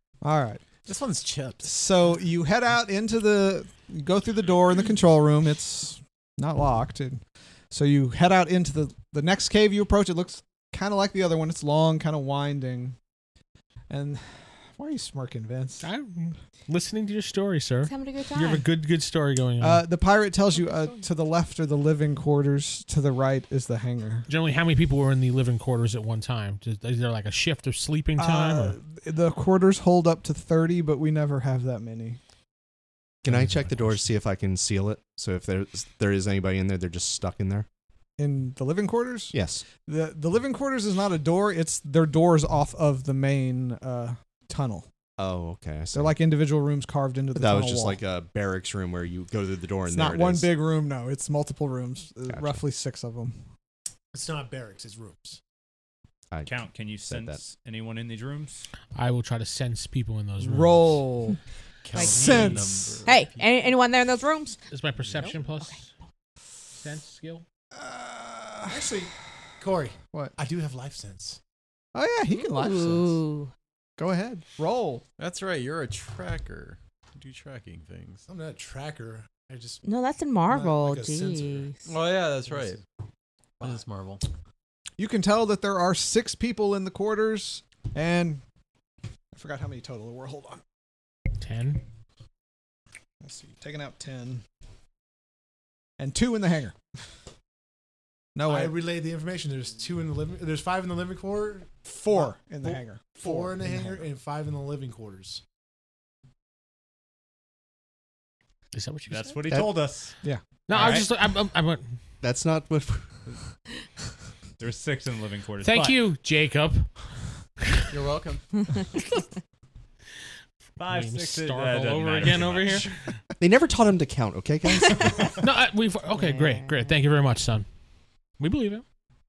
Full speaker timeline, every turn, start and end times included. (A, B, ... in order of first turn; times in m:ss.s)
0:00.2-0:00.6 A
0:00.8-0:01.7 B
0:01.6-0:13.0 A
0:13.9-0:15.9 A
0:15.8-0:19.8 C
0:17.8-0:18.7 D
0:19.6-0:24.3 A
0:20.6-0:21.0 D
0:24.3-0:28.8 C
0:28.2-0:32.2 A
0:33.2-0:37.7 E
0:38.2-0:44.9 A
0:39.3-0:39.6 E
0:45.2-0:46.1 E
0:45.9-0:48.0 A
0:47.4-0:50.5 E
0:49.9-0:53.4 A
0:52.3-0:52.6 E
0:54.1-0:55.4 F
0:56.4-0:58.7 G
0:57.1-0:57.4 E
0:59.0-1:01.0 C
1:00.4-1:01.4 A
1:01.8-1:03.4 B
1:01.9-1:04.6 D
1:02.0-1:03.0 A
1:04.7-1:05.9 C
1:05.2-1:05.7 D
1:06.8-1:07.4 C
1:07.7-1:08.9 A
1:08.7-1:11.4 F
1:11.9-1:13.2 A
1:12.3-1:13.5 D
1:14.0-1:15.0 A
1:15.2-1:18.3 B
1:18.3-1:19.8 F
1:19.8-1:21.9 D
1:20.5-1:21.7 F
1:21.9-1:22.8 B
1:22.4-1:22.7 F
1:23.6-1:24.2 B
1:25.0-1:28.4 A
1:29.3-1:30.6 A
1:31.4-1:31.8 C
1:33.2-1:34.4 A
1:36.0-1:36.8 A
1:38.4-1:38.8 A
1:38.4-1:45.4 F
1:41.9-1:44.0 A
1:48.7-1:49.4 C
1:49.1-1:50.2 G
1:49.5-1:49.8 E
1:50.7-1:51.9 C
1:50.7-1:51.1 G
1:52.2-1:53.3 E
1:54.6-1:56.0 G
1:55.6-1:56.9 C
1:57.9-1:58.5 B
2:00.8-2:03.0 G
2:00.8-2:03.2 C
2:03.4-2:05.4 E
2:05.4-2:07.7 C
2:06.1-2:07.0 D
2:08.4-2:08.8 C